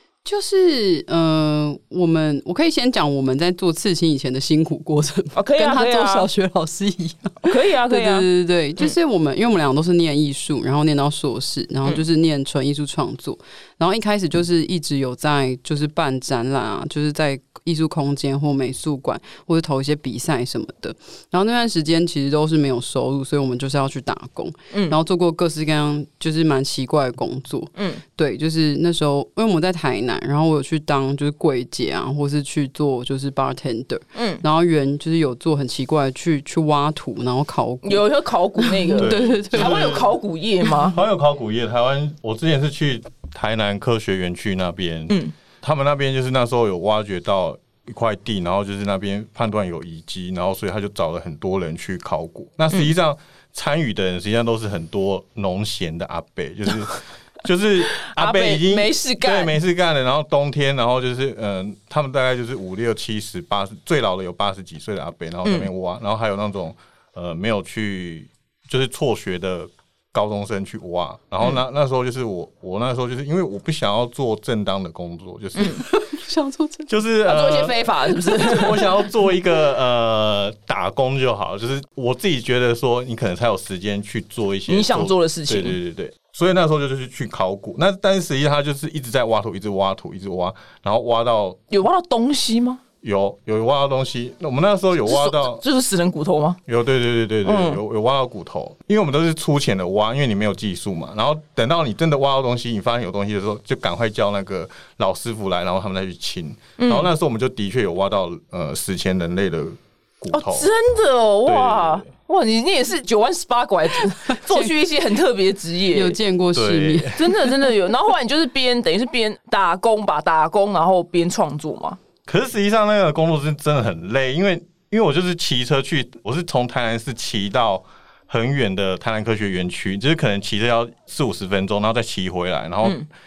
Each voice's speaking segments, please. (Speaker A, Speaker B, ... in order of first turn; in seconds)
Speaker A: 0.2-38.0, 38.6-39.9, 75.6-76.9, 78.2-78.9, 114.3-114.7, 115.9-117.2
Speaker B: 5.3-6.3, 7.4-8.3, 24.7-25.0, 27.8-28.0, 34.1-34.4, 37.8-41.0, 57.9-59.5, 75.5-75.8, 77.2-78.8, 84.7-85.8, 91.7-92.8, 95.0-96.6, 97.4-97.8, 106.8-107.1, 110.3-116.2, 117.1-122.0
Speaker C: 39.0-40.1, 40.9-75.9, 76.9-91.6, 93.0-95.6, 96.7-110.7, 111.5-112.1, 116.5-117.2, 122.3-133.0